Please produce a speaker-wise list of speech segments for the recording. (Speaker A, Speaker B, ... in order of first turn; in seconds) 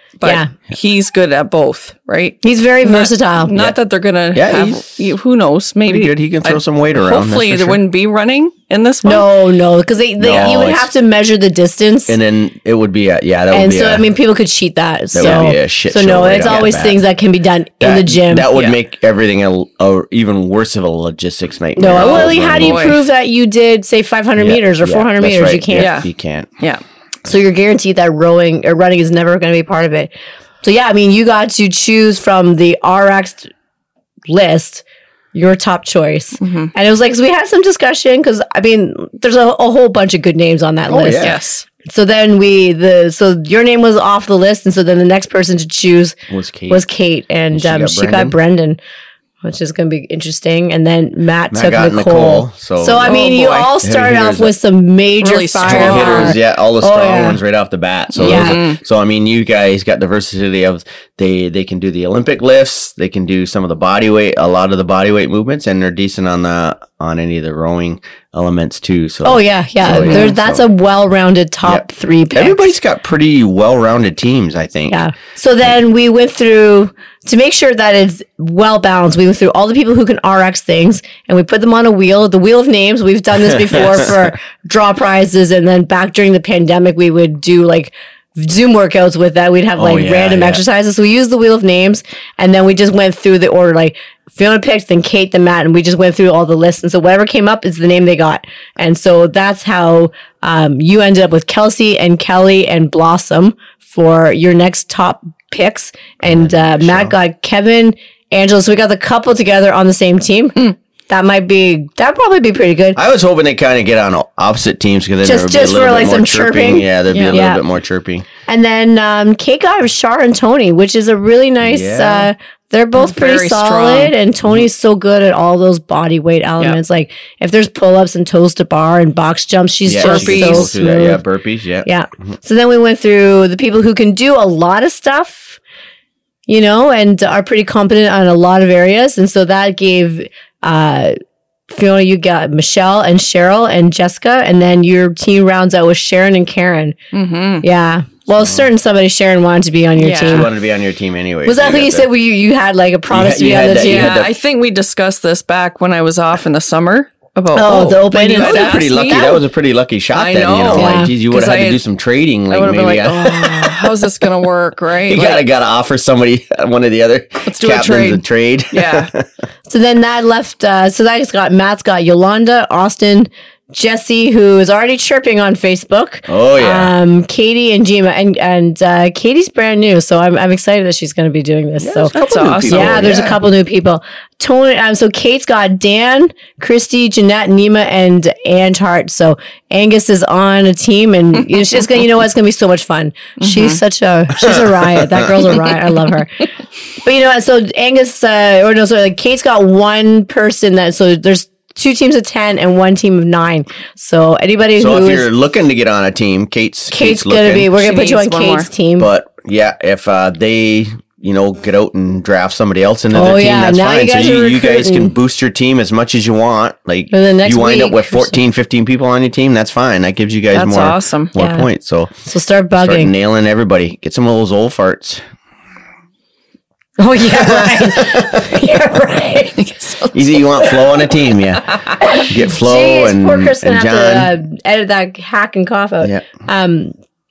Speaker A: 0.2-9.3, 15.2-15.5, 16.4-16.7, 18.5-18.8, 21.9-23.0, 25.7-26.1, 36.4-36.7, 41.2-41.6, 53.0-53.7, 55.2-56.4, 58.1-58.8, 69.8-70.3, 117.1-117.4, 123.0-124.1, 130.0-130.8, 147.1-147.6, 149.9-150.5, 153.7-159.3, 160.1-161.8, 162.5-165.5, 167.4-169.1, 182.1-183.1, 193.4-193.8, 207.7-208.7, 220.5-221.3, 229.6-230.3
Speaker B: 0.2-0.5, 2.4-3.5, 9.0-12.2, 13.5-18.5, 21.8-26.0, 27.2-33.5, 34.3-41.3, 41.8-46.1, 46.7-48.8, 49.4-57.4, 58.2-58.6, 69.2-72.7, 74.9-113.0, 115.2-117.6, 118.5-131.2, 131.8-135.6, 136.5-141.1, 141.7-146.9, 147.6-150.5, 151.4-154.2, 157.5-159.4, 160.7-161.1, 169.7-196.4, 197.0-205.3, 206.9-209.1, 213.1-215.1, 217.1-218.4, 221.3-221.7, 222.2-223.1, 227.0-229.7, 232.0-236.9
Speaker C: 4.3-5.1, 5.8-7.8, 10.2-10.9, 12.1-14.1, 15.1-17.0, 17.8-23.1, 24.4-26.5, 40.9-41.4, 46.3-46.8, 47.5-48.3, 51.5-53.2, 53.8-54.5, 55.6-70.6, 71.6-75.0, 83.4-84.1, 89.8-90.6, 106.2-107.1, 113.0-118.3, 121.6-122.3, 129.8-131.9, 148.4-148.7, 150.2-152.1, 153.1-154.3, 158.3-163.9, 165.1-169.2, 176.3-176.9, 181.8-183.4, 194.3-195.6, 204.8-207.7, 209.0-222.1, 222.8-225.2, 227.2-228.4, 230.1-234.3, 236.0-236.3